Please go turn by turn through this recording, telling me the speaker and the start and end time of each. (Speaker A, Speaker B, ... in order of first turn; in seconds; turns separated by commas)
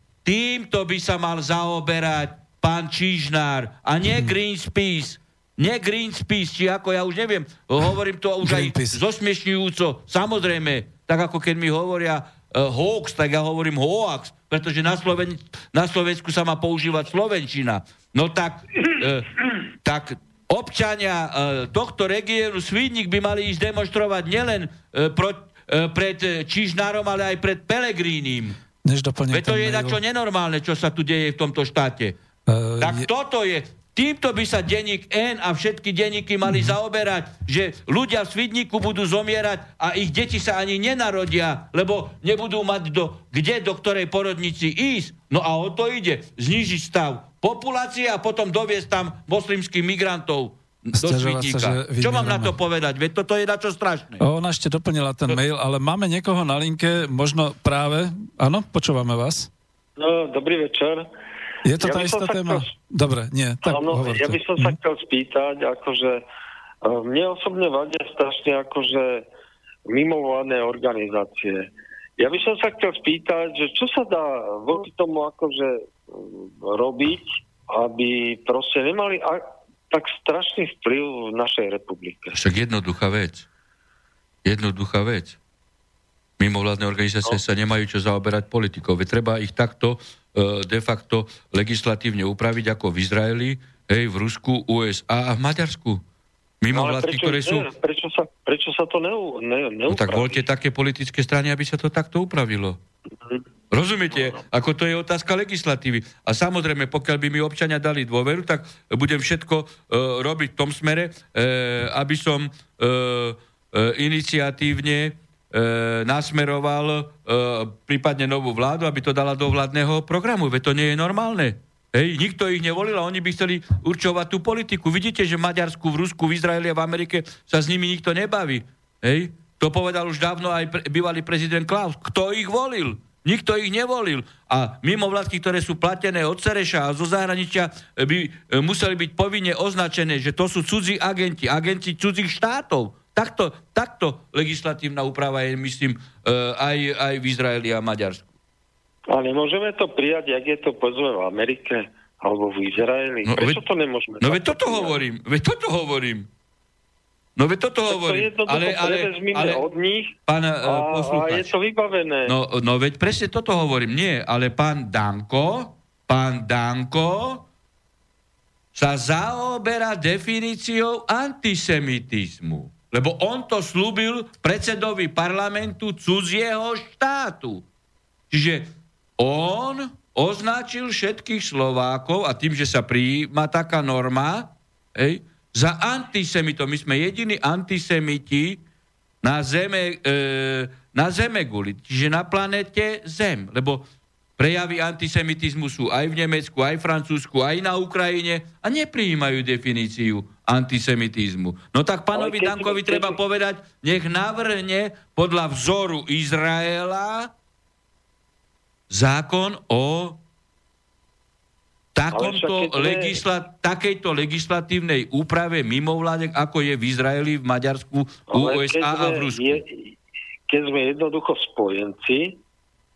Speaker A: 0.2-28.6, Speaker B: 8.4-9.0, Speaker B: 28.8-30.0, Speaker A: 29.3-32.1, Speaker B: 32.5-33.1, Speaker A: 32.8-54.2, Speaker B: 36.5-36.7, Speaker B: 51.0-52.6, Speaker B: 54.2-59.5, Speaker C: 60.0-61.1, Speaker B: 61.6-64.8, Speaker C: 61.8-62.7, Speaker C: 63.6-66.2, Speaker C: 66.8-69.2, Speaker C: 69.9-82.3, Speaker A: 82.3-83.5, Speaker A: 84.4-85.4, Speaker A: 86.4-96.0, Speaker A: 96.6-97.7, Speaker C: 96.7-100.4, Speaker A: 99.9-102.8, Speaker A: 103.7-148.3, Speaker C: 104.1-104.4, Speaker C: 149.1-155.0, Speaker A: 153.2-153.6, Speaker A: 154.2-156.3, Speaker A: 157.3-159.6, Speaker C: 157.9-162.3, Speaker A: 160.3-161.5, Speaker A: 162.2-167.4, Speaker A: 168.7-177.6, Speaker A: 178.3-188.6, Speaker A: 189.2-193.8, Speaker A: 194.4-207.3, Speaker C: 202.1-203.2, Speaker A: 208.9-210.2, Speaker A: 211.9-219.6, Speaker C: 212.1-213.2, Speaker C: 218.3-219.9, Speaker C: 220.5-222.4